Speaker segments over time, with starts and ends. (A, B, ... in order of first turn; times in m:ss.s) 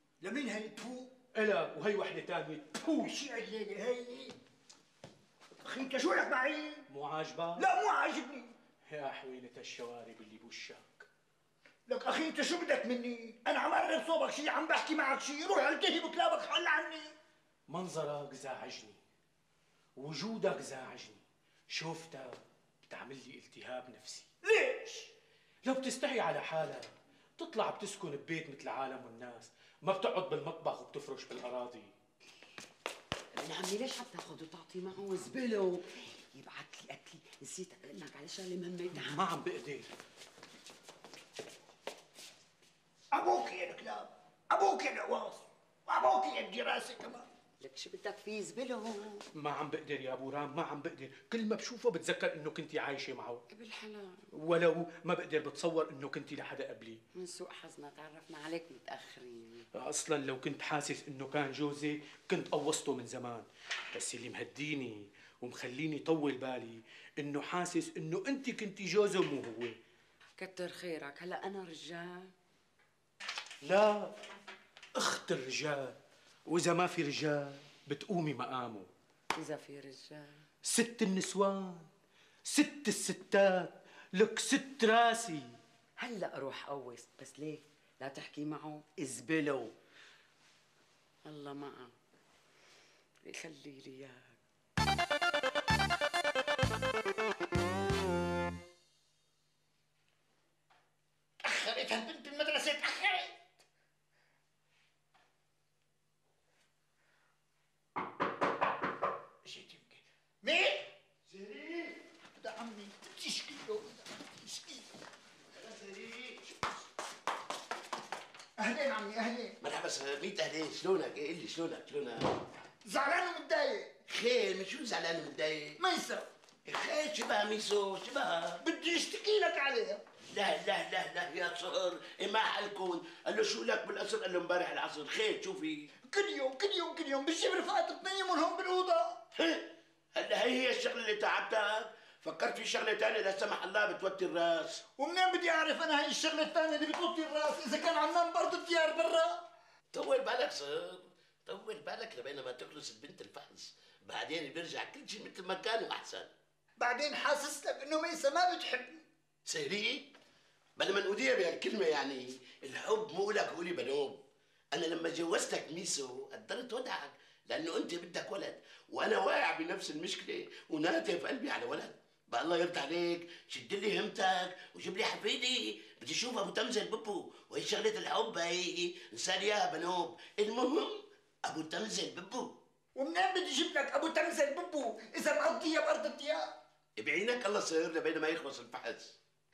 0:00.2-0:01.1 A
0:01.3-0:03.1 B
0:03.0-0:04.4 A
0:05.6-0:06.8 A
0:06.9-0:07.6 B
0:07.6-0:08.5 A
0:08.9-0:11.1 B
0:11.9-0:17.1 A
0:17.7-0:19.0 B
0:20.0-0:24.3 B
0:24.4-0:25.1 A
0:25.6-0:31.9 B
0:33.4-0:39.3 C
0:38.9-0:39.9 B
0:43.1-0:47.2 A
0:47.6-0:49.2 C
0:49.3-0:53.4 B
0:53.5-0:54.2 C
0:54.3-0:57.0 B
0:57.2-0:59.7 C
0:59.7-1:09.7 B
1:10.4-1:12.3 C
1:13.6-1:14.1 B
1:15.0-1:18.9 B
1:19.3-1:20.4 C
1:20.6-1:21.9 B
1:22.5-1:25.6 B
1:26.0-1:29.7 C
1:31.2-1:31.9 C
1:33.2-1:34.3 C
1:41.4-1:43.4 A
1:49.5-1:50.9 A
1:52.4-1:54.8 A
1:55.6-1:56.4 D
1:58.6-1:59.6 A
1:59.6-2:02.3 D
2:02.8-2:03.9 A
2:04.1-2:05.8 D
2:05.8-2:06.2 A
2:06.7-2:08.6 D
2:08.6-2:10.0 A
2:10.3-2:15.7 D
2:16.1-2:19.2 A
2:19.4-2:24.8 D
2:25.0-2:29.4 A
2:29.9-2:36.3 D
2:36.8-2:39.0 A
2:39.4-2:40.1 D
2:40.8-2:44.2 D
2:44.7-3:02.6 D
3:03.0-3:06.5 A
3:07.0-3:09.2 D